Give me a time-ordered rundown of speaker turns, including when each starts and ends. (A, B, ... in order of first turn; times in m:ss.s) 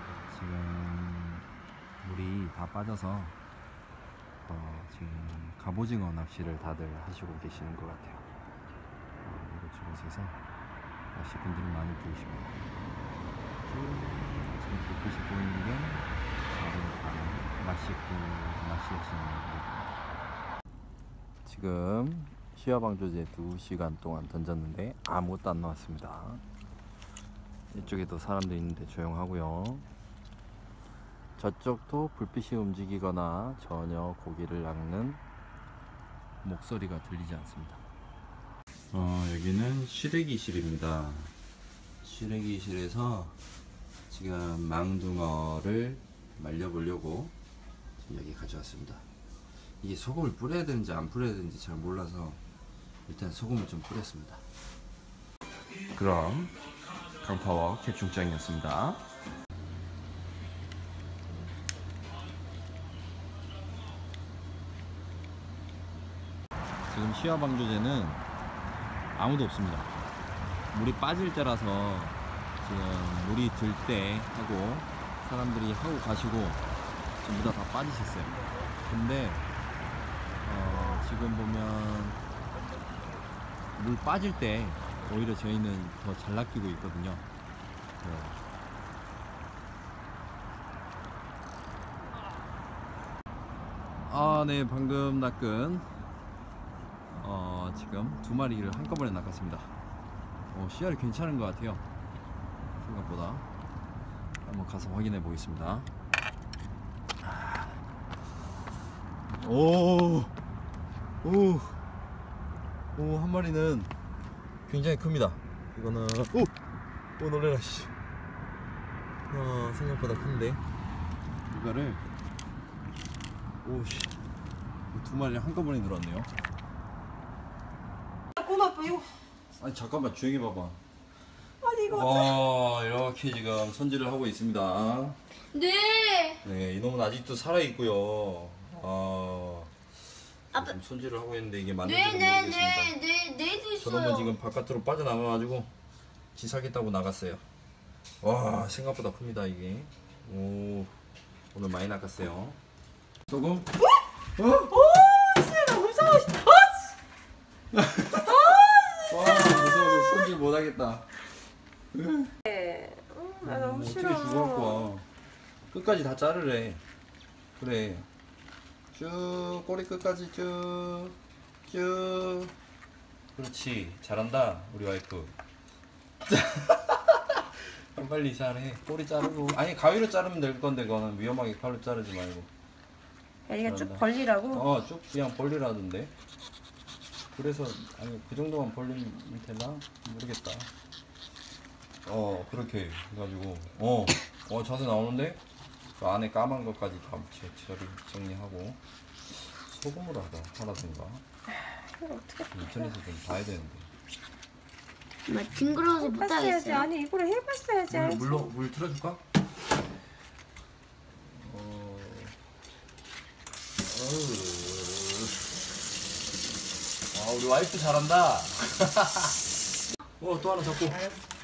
0:00.3-0:01.5 A
0:02.0-0:03.4 A
0:04.5-0:08.2 A
0:09.2-0:10.4 A
0:11.1-0:12.6 A
0:13.7-0:19.8 A
0:21.4-0:26.4 A
0:27.7-0:29.9 A
0:31.4-0:35.2 A
0:36.4-0:37.8 A
0:38.9-0:41.3 A
0:42.0-0:43.4 A
0:44.1-0:47.3 A
0:48.0-0:49.0 A
0:49.8-0:52.4 A
0:53.1-0:54.4 A
0:55.9-0:56.6 A
0:57.2-0:59.0 A
1:06.9-1:08.2 A
1:09.2-1:09.9 A
1:10.7-1:16.6 A
1:17.2-1:19.5 A
1:20.4-1:22.2 A
1:23.8-1:27.3 A
1:28.0-1:28.4 A
1:34.0-1:35.9 A
1:37.1-1:39.7 A
1:40.5-1:41.8 A
1:42.8-1:43.4 A
1:44.4-1:45.9 A
1:47.2-1:47.8 A
1:49.3-1:50.3 A
1:51.2-1:51.8 A
1:53.0-1:53.9 A
1:54.7-1:56.5 A
1:57.2-1:57.9 A
1:59.3-2:00.6 A
2:01.5-2:02.0 A
2:03.6-2:04.2 A
2:04.9-2:06.3 A
2:08.4-2:09.1 B
2:09.6-2:10.8 A
2:11.6-2:12.4 B
2:11.9-2:15.2 A
2:15.5-2:16.4 C
2:16.4-2:19.7 A
2:20.5-2:23.0 A
2:21.8-2:24.3 C
2:23.8-2:25.7 A
2:26.4-2:27.4 A
2:28.2-2:30.9 A
2:31.5-2:32.6 A
2:33.3-2:33.7 A
2:34.4-2:34.8 A
2:34.7-2:36.9 B
2:37.7-2:41.2 A
2:38.2-2:40.3 B
2:41.9-2:42.3 A
2:42.5-2:44.9 B
2:43.4-2:45.1 A
2:45.7-2:46.8 A
2:47.6-2:48.1 A
2:48.9-2:51.2 A
2:51.7-2:52.5 A
2:53.4-2:55.4 A
2:56.3-2:57.4 A
2:57.9-3:02.5 A
3:03.5-3:04.7 B
3:03.6-3:06.1 A
3:07.3-3:10.7 A
3:12.0-3:15.4 A
3:16.0-3:18.8 A
3:19.3-3:21.2 A
3:22.0-3:22.9 B
3:22.5-3:23.9 A
3:25.3-3:26.9 C
3:26.0-3:28.5 B
3:27.9-3:29.2 A
3:31.3-3:32.3 A
3:33.8-3:35.5 A
3:37.1-3:39.3 A
3:40.2-3:41.1 A